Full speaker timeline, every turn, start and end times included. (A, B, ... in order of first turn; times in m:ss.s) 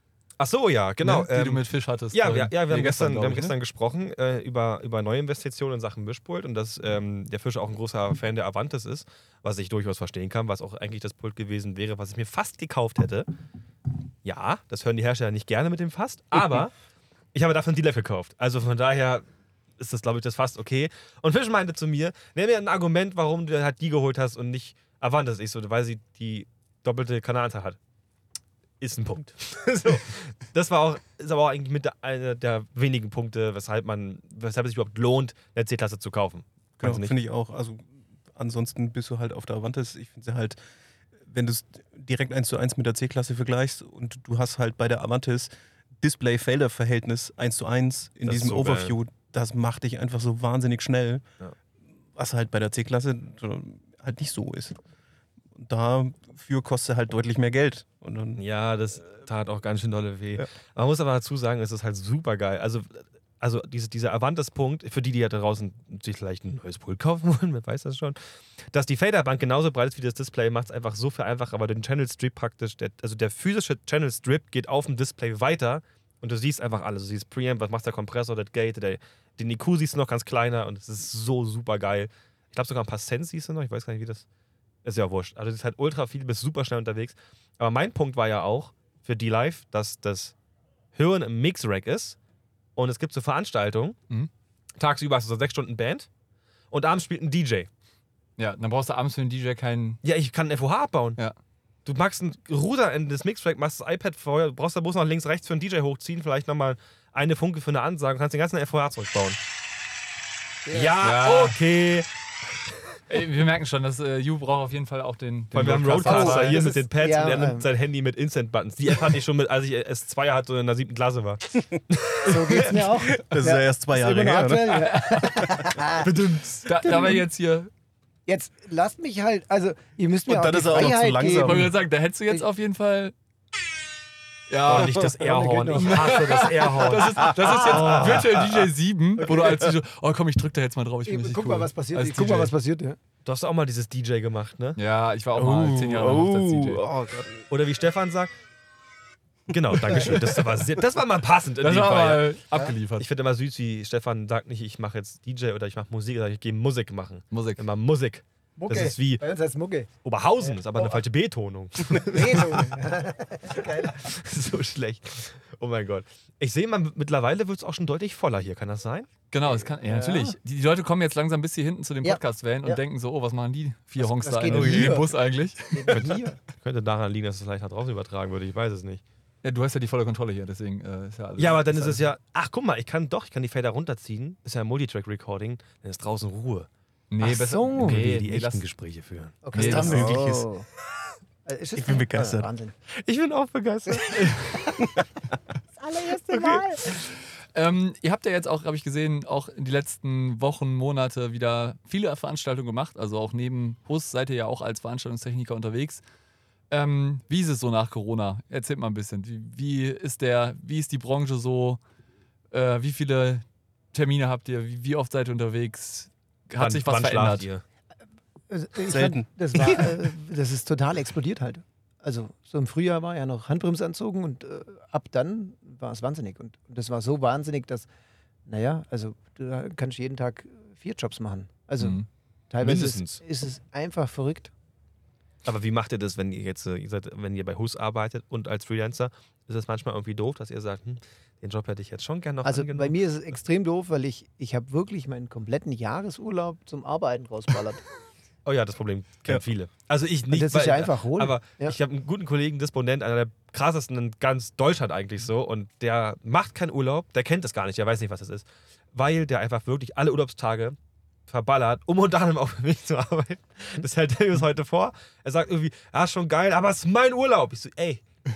0:00.4-0:13.3 A
0:01.0-0:03.5 B
0:14.2-0:16.7 A
0:17.3-0:19.2 A
0:19.8-0:27.8 A
0:28.8-0:37.1 A
0:36.8-0:40.6 C
0:41.2-0:45.5 C
0:46.0-0:51.2 C
0:48.2-0:49.0 A
0:52.2-0:54.8 C
0:55.6-0:58.4 C
0:58.4-1:24.2 A
1:24.8-1:30.3 A
1:30.9-1:32.2 A
1:32.8-1:34.0 A
1:34.8-1:36.1 A
1:36.7-1:37.7 A
1:38.4-1:40.0 B
1:40.0-1:41.2 A
1:41.8-1:49.4 A
1:50.6-1:51.0 D
1:50.7-1:52.1 A
1:51.0-1:51.6 B
1:53.1-1:56.7 B
1:55.5-2:03.0 A
1:56.0-1:57.7 D
2:02.2-2:06.1 D
2:02.7-2:05.7 C
2:04.7-2:05.4 B
2:06.0-2:06.9 A
2:06.6-2:07.7 B
2:06.8-2:07.2 D
2:08.3-2:11.7 D
2:10.2-2:11.7 C
2:11.4-2:13.1 B
2:14.5-2:15.1 B
2:14.6-2:18.4 A
2:14.9-2:16.8 D
2:15.7-2:22.5 B
2:17.4-2:18.0 D
2:19.3-2:19.7 C
2:21.0-2:23.0 D
2:23.2-2:24.8 A
2:24.8-2:26.8 B
2:25.3-2:27.4 C
2:27.5-2:28.3 A
2:29.5-2:32.4 A
2:29.9-2:30.3 C
2:31.6-2:33.1 B
2:32.9-2:39.2 A
2:37.3-2:37.6 B
2:38.6-2:41.0 D
2:40.0-2:42.8 A
2:41.9-2:44.1 D
2:43.9-2:49.1 A
2:49.3-2:56.2 B
2:49.4-2:50.4 D
2:52.0-2:52.8 D
2:54.0-2:55.1 D
2:54.5-2:55.0 C
2:55.7-2:56.4 D
2:55.9-2:59.0 A
2:59.4-3:02.0 B
3:01.4-3:06.7 A
3:07.1-3:08.6 B
3:07.2-3:08.0 D
3:07.7-3:10.0 A
3:09.4-3:10.6 D
3:09.5-3:10.4 B
3:09.6-3:10.4 C
3:11.4-3:12.7 D
3:11.8-3:12.5 C
3:12.9-3:14.8 A
3:13.8-3:15.0 D
3:15.8-3:17.0 D
3:16.3-3:16.6 A
3:16.9-3:26.0 B
3:26.7-3:31.8 B
3:32.5-3:37.4 B
3:36.6-3:37.6 A
3:38.5-3:47.9 D
3:38.8-3:39.3 C
3:48.4-3:54.5 D
3:51.8-3:52.0 B
3:52.6-3:53.2 A
3:55.4-4:02.9 A
4:02.4-4:07.8 D
4:08.4-4:28.0 A
4:10.3-4:11.8 D